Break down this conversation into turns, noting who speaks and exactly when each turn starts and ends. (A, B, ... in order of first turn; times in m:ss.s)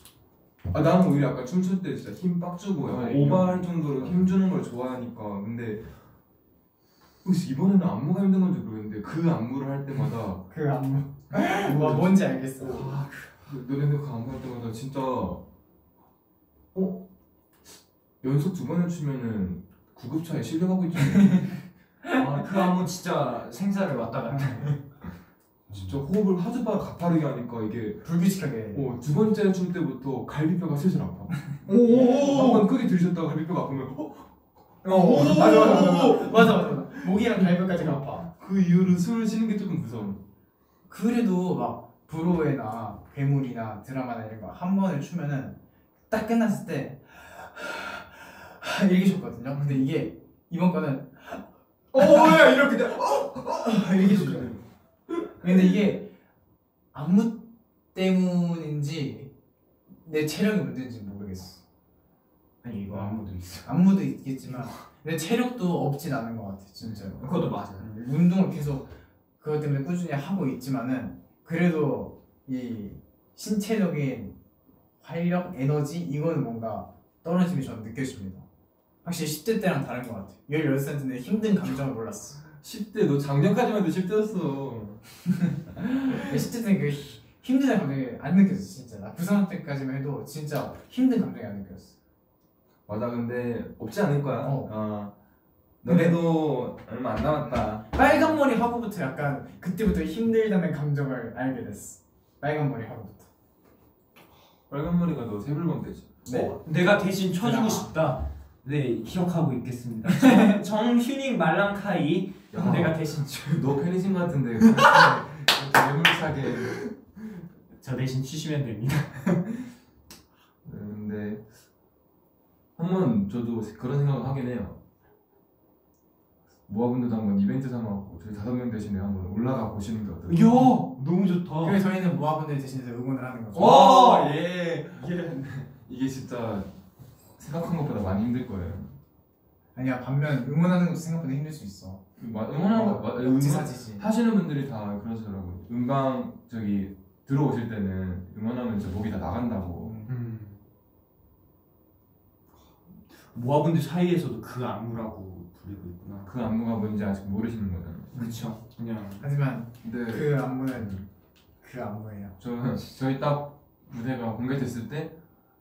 0:00.7-0:05.9 A
0:02.8-0:04.4 B
0:07.2-0:10.4 A
0:10.5-0:13.0 C
0:11.3-0:15.4 A
0:16.7-0:17.0 A
0:18.2-0:21.6 A
0:22.1-0:24.8 B
0:25.7-0:28.1 A
0:28.0-0:28.8 C
0:28.7-0:40.2 A
0:31.6-0:32.6 B
0:34.8-0:36.2 B
0:34.9-0:38.3 C
0:40.9-0:45.6 C
0:46.1-0:51.4 C
0:51.9-0:54.6 B
0:52.0-0:52.4 C
0:53.6-0:54.5 C
0:55.4-0:56.1 C
0:56.9-0:59.3 C
1:00.0-1:01.6 C
1:02.6-1:03.9 B
1:02.9-1:07.2 C
1:06.8-1:07.9 B
1:07.8-1:14.4 C
1:15.0-1:18.4 C
1:19.0-1:22.4 C
1:22.5-1:25.0 A
1:25.8-1:31.9 C
1:32.9-1:35.1 A
1:34.4-1:34.7 C
1:35.8-1:38.4 A
1:35.9-1:36.2 C
1:37.9-1:43.3 C
1:44.7-1:46.2 A
1:46.2-1:46.5 C
1:46.3-1:53.8 B
1:47.4-1:47.9 C
1:50.2-1:50.5 C
1:52.5-1:56.9 A
1:57.8-1:59.7 B
2:00.6-2:01.4 A
2:02.8-2:04.8 A
2:06.7-2:10.7 A
2:10.2-2:11.8 B
2:11.6-2:13.9 C
2:13.5-2:14.3 B
2:13.5-2:16.7 A
2:17.4-2:18.9 A
2:19.7-2:22.0 C
2:22.2-2:30.0 A
2:22.7-2:24.0 C
2:29.8-2:30.1 C
2:30.1-2:30.6 B
2:33.3-2:36.3 B
2:36.2-2:38.3 A
2:38.1-2:39.2 B
2:39.2-2:41.0 C
2:39.8-2:41.0 A
2:41.6-2:42.4 C
2:42.4-2:45.1 A